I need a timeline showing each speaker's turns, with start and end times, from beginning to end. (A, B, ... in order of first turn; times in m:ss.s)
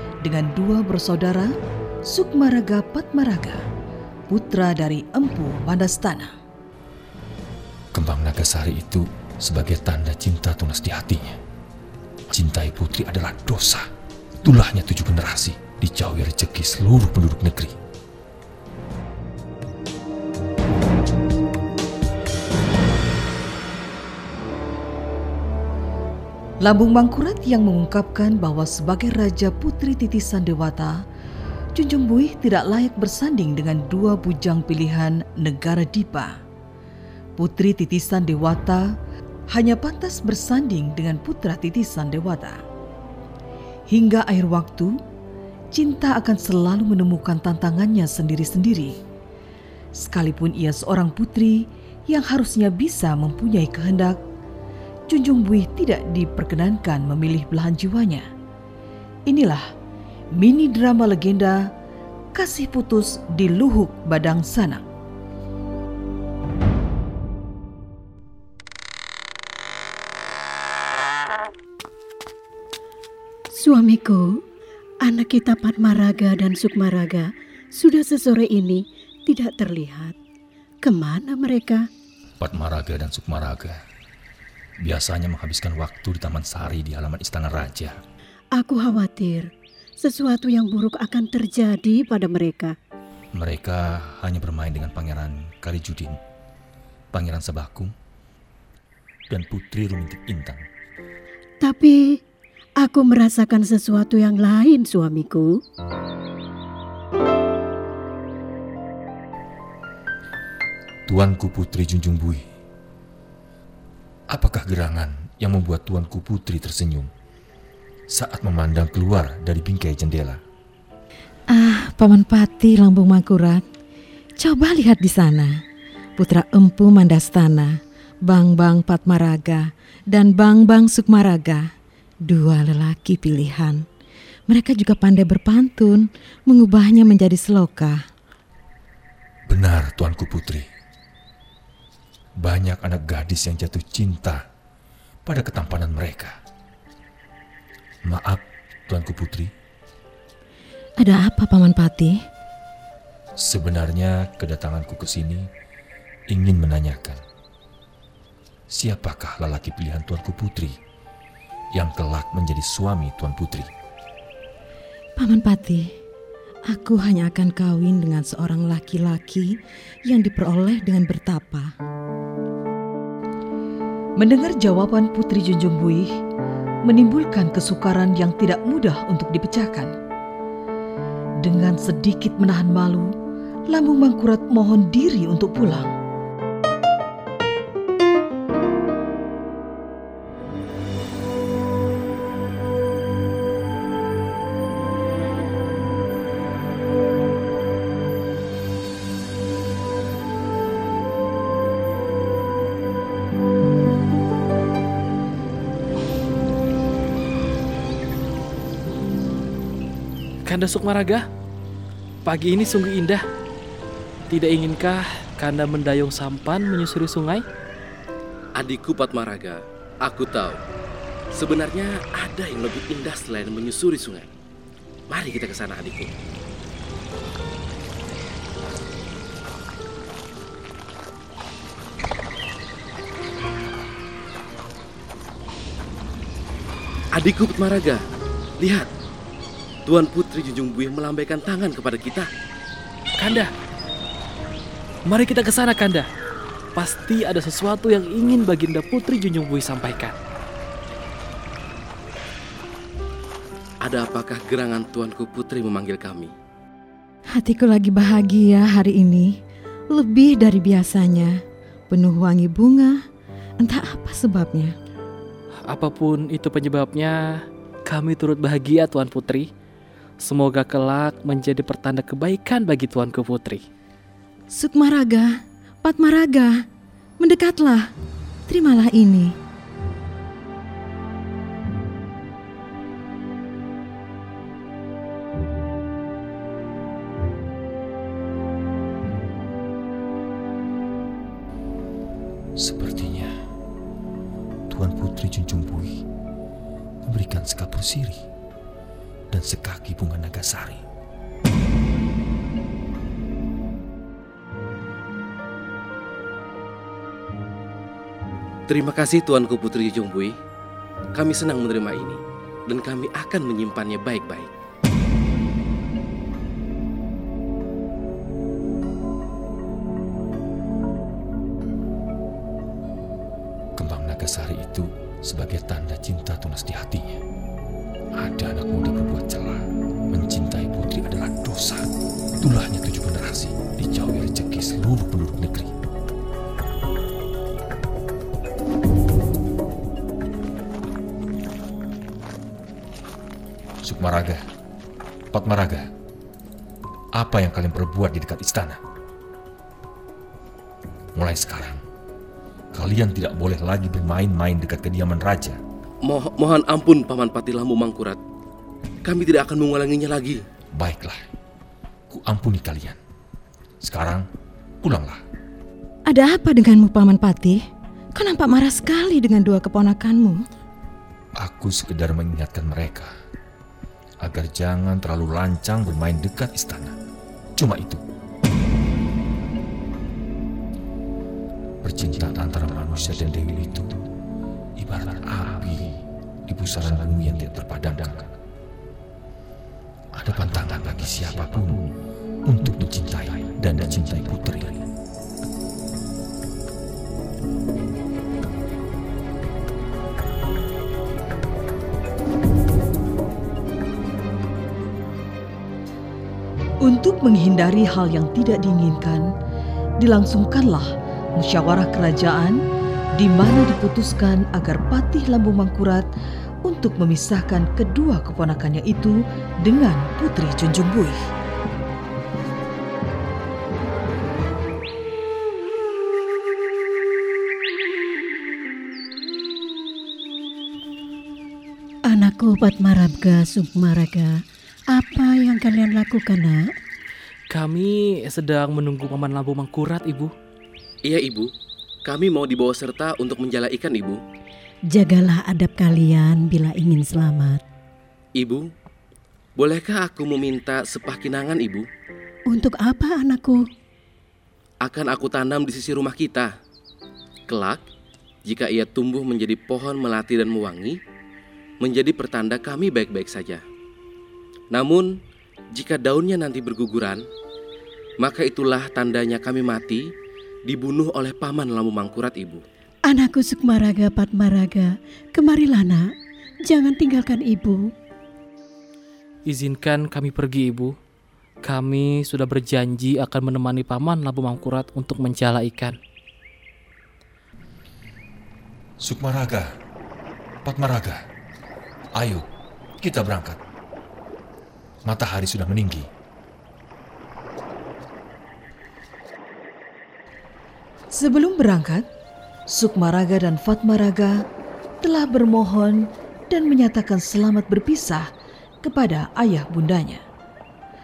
0:00.2-0:01.5 A
0:02.0-0:03.6 A
0:04.3-0:06.3 A
0:07.9-0:11.4 B
0:12.3-0:13.8 B
0:14.4-0:17.7 B
0:26.6-0:31.0 A
0:31.7-0:36.4 A
0:37.4-0:38.9 A
0:39.5-0:42.6 A
0:43.9-0:45.0 A
0:45.7-0:49.0 A
0:49.9-0:54.2 A
0:55.1-0:58.2 A
0:59.3-0:59.6 A
1:00.4-1:01.6 A
1:02.3-1:04.8 A
1:13.6-1:14.2 C
1:15.0-1:20.2 C
1:20.8-1:21.8 C
1:22.4-1:23.8 B
1:24.8-1:28.0 B
1:28.6-1:29.5 C
1:30.0-1:32.7 C
1:33.3-1:36.2 B
1:37.1-1:37.9 B
1:39.3-1:40.6 B
1:41.6-1:42.0 C
1:42.8-1:45.5 C
1:51.1-1:52.4 B
1:54.3-1:57.1 B
1:58.1-2:00.4 B
2:01.5-2:03.6 D
2:04.4-2:05.6 D
2:06.2-2:11.7 D
2:12.3-2:13.8 D
2:14.5-2:18.0 D
2:19.5-2:20.7 B
2:22.4-2:24.4 B
2:25.2-2:26.3 B
2:28.0-2:29.5 B
2:31.0-2:32.2 D
2:33.4-2:35.5 B
2:36.3-2:37.2 B
2:38.7-2:40.8 B
2:41.7-2:43.7 B
2:45.2-2:45.9 D
2:46.7-2:51.7 D
2:54.2-2:56.1 A
2:56.8-2:59.9 A
3:01.4-3:03.1 A
3:03.7-3:05.9 A
3:30.4-3:31.3 E
3:32.2-3:33.2 E
3:34.3-3:37.4 E
3:38.6-3:40.6 F
3:41.3-3:44.3 F
3:45.1-3:46.1 F
3:57.2-3:58.0 F
3:58.6-3:58.9 F
3:59.8-4:02.3 F
4:03.2-4:03.5 E
4:05.1-4:06.1 E
4:06.7-4:10.2 E
4:13.8-4:16.3 F
4:17.3-4:19.4 D
4:19.9-4:21.4 D
4:21.9-4:23.0 D
4:23.6-4:24.7 D
4:25.7-4:27.2 E
4:27.9-4:29.5 E
4:30.2-4:33.6 E
4:34.5-4:36.6 D
4:37.2-4:37.9 D
4:38.5-4:39.4 D
4:52.6-4:53.3 B
4:54.7-4:56.0 B
4:57.0-4:58.2 B
4:59.3-5:00.8 B
5:08.7-5:10.3 F
5:11.1-5:14.5 F
5:23.8-5:27.2 B
5:28.2-5:31.9 B
5:32.4-5:35.7 B
5:43.8-5:44.4 B
5:45.3-5:45.9 B
5:47.2-5:48.8 B
5:51.2-5:51.8 B
5:52.7-5:55.6 B
5:56.0-5:58.2 F
5:59.0-6:00.4 F
6:00.7-6:01.2 B
6:02.1-6:03.0 B
6:03.8-6:04.2 B
6:04.8-6:05.2 B
6:06.1-6:07.6 D
6:08.1-6:10.4 D
6:11.4-6:13.1 B
6:14.2-6:17.0 B
6:17.6-6:18.0 B
6:21.8-6:24.0 B
6:24.8-6:28.3 B
6:30.1-6:31.8 B
6:32.4-6:34.8 B
6:46.8-6:49.3 A
6:50.0-6:52.6 A
6:53.2-6:56.0 A
6:56.6-7:01.2 A
7:12.1-7:14.3 C
7:14.9-7:16.6 C
7:17.5-7:20.3 E
7:21.1-7:21.5 F
7:22.0-7:24.2 F
7:24.9-7:27.6 C
7:28.4-7:28.6 F
7:29.6-7:31.9 F
7:32.5-7:33.6 C
7:34.8-7:36.5 F
7:37.5-7:37.8 F
7:38.4-7:41.0 F
7:41.8-7:43.6 F
7:44.7-7:45.1 F
7:45.7-7:47.2 F
7:48.2-7:50.1 F
7:50.7-7:52.6 F
7:53.1-7:56.1 C
7:56.7-7:57.9 C
7:59.4-8:01.0 E
8:01.6-8:06.0 E
8:09.0-8:09.7 B
8:10.6-8:11.2 B
8:12.2-8:12.4 B
8:13.0-8:13.6 B
8:15.0-8:16.1 B
8:21.1-8:22.0 A
8:22.7-8:24.4 A
8:25.0-8:28.3 A
8:28.8-8:30.2 A